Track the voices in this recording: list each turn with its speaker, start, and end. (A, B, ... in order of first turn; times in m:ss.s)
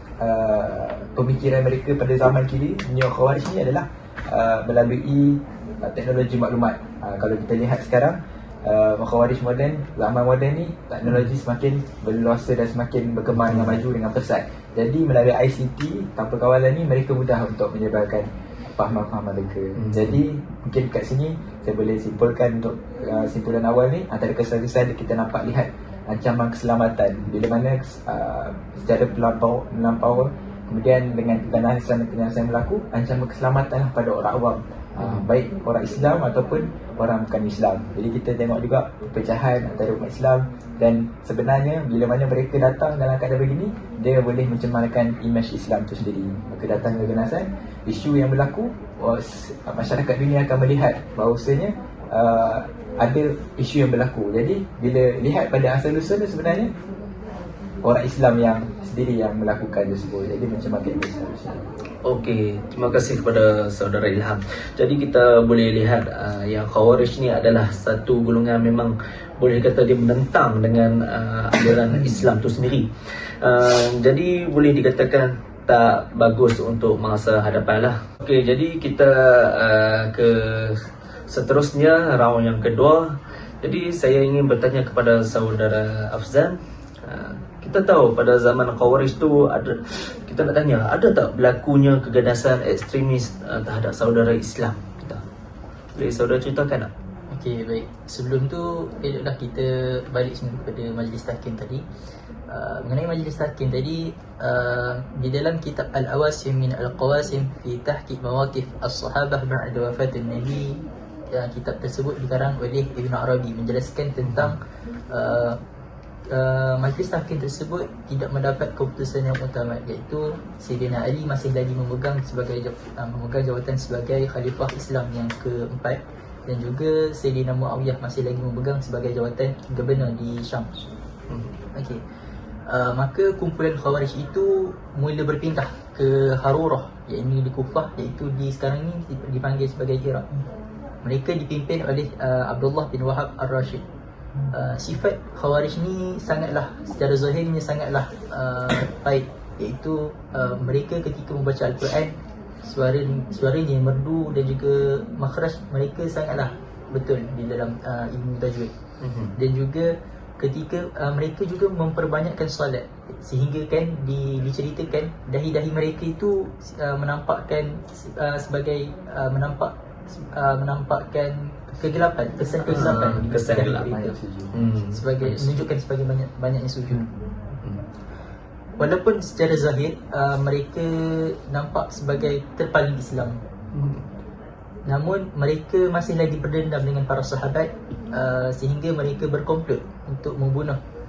0:00.2-0:56.7 A
0:13.4-0:13.7 B
0:19.8-0:20.2 B
0:35.0-0:35.2 B
0:57.8-1:01.7 A
1:02.0-1:12.9 B
1:13.4-1:35.2 B
1:36.0-1:36.9 B
1:37.3-1:41.8 C
1:42.5-1:50.8 C
1:51.3-1:54.6 C
1:54.2-1:54.6 B
1:55.1-1:55.6 C
1:56.3-2:10.9 C
2:11.8-2:12.0 C
2:12.7-2:20.3 C
2:21.0-2:23.8 C
2:24.5-2:38.8 C
2:39.0-2:39.3 B
2:39.4-2:54.2 C
2:52.7-2:53.9 B
2:52.8-2:54.5 A
2:54.5-2:55.5 B
2:54.9-2:57.1 C
2:58.8-3:03.4 C
3:03.7-3:04.0 B
3:04.9-3:10.8 C